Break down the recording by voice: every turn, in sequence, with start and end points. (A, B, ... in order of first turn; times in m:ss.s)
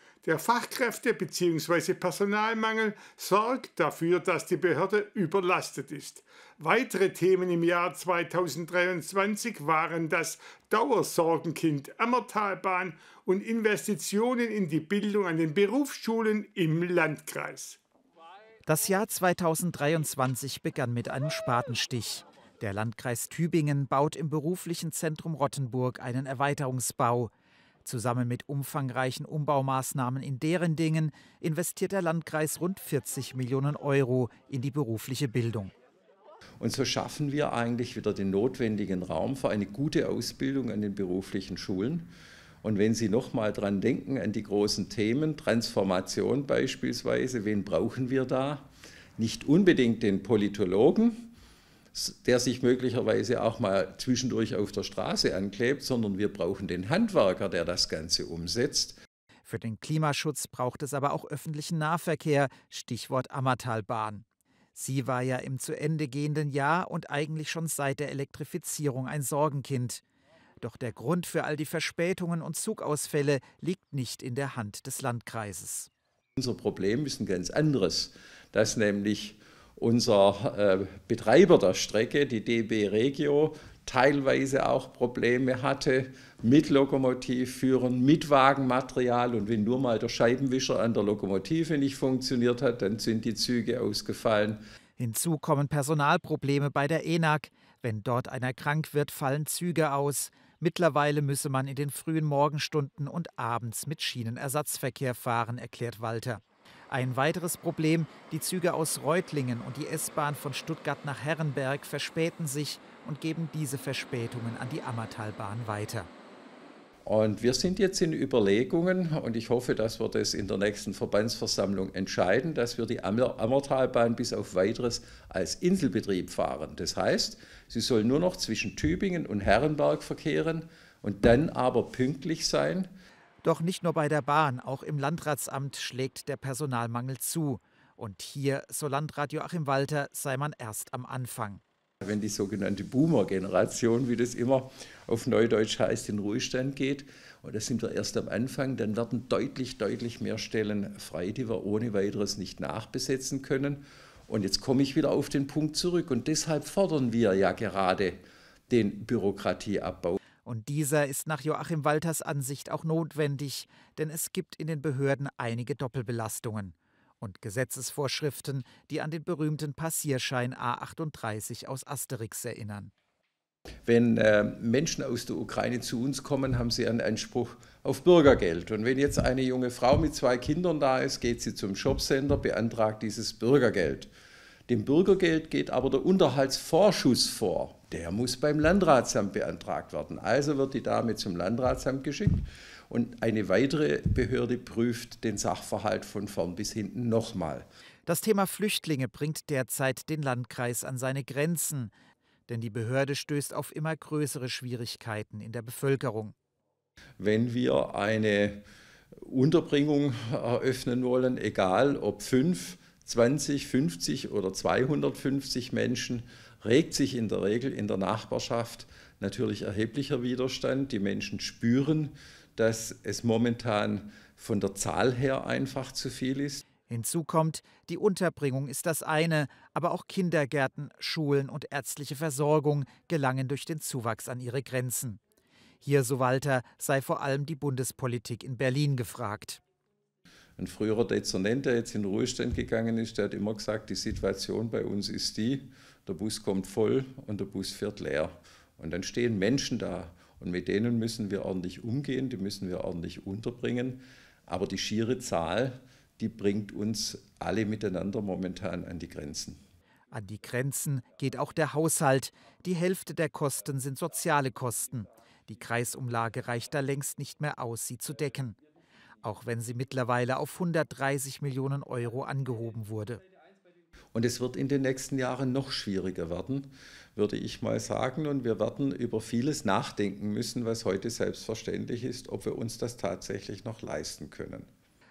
0:00.2-0:17.8 A
0:18.6-0:27.3 B
0:27.8-0:35.7 B
0:36.6-0:42.1 C
0:42.6-0:51.3 C
0:51.9-0:59.0 C
0:59.4-1:10.0 B
1:10.6-1:15.9 B
1:16.4-1:34.6 C
1:35.0-1:56.1 B
1:57.0-2:12.9 C
2:13.4-2:21.6 B
2:22.0-2:40.2 C
2:40.4-2:52.9 B
2:53.8-3:04.1 C
3:04.7-3:17.7 C
3:18.0-3:21.9 B
3:22.5-3:26.3 B
3:27.2-3:28.6 C
3:29.2-3:46.6 C
3:46.9-3:55.2 B
3:55.8-3:59.6 B
4:00.6-4:19.6 C
4:20.1-4:28.6 B
4:29.2-4:33.2 B
4:34.1-4:44.7 C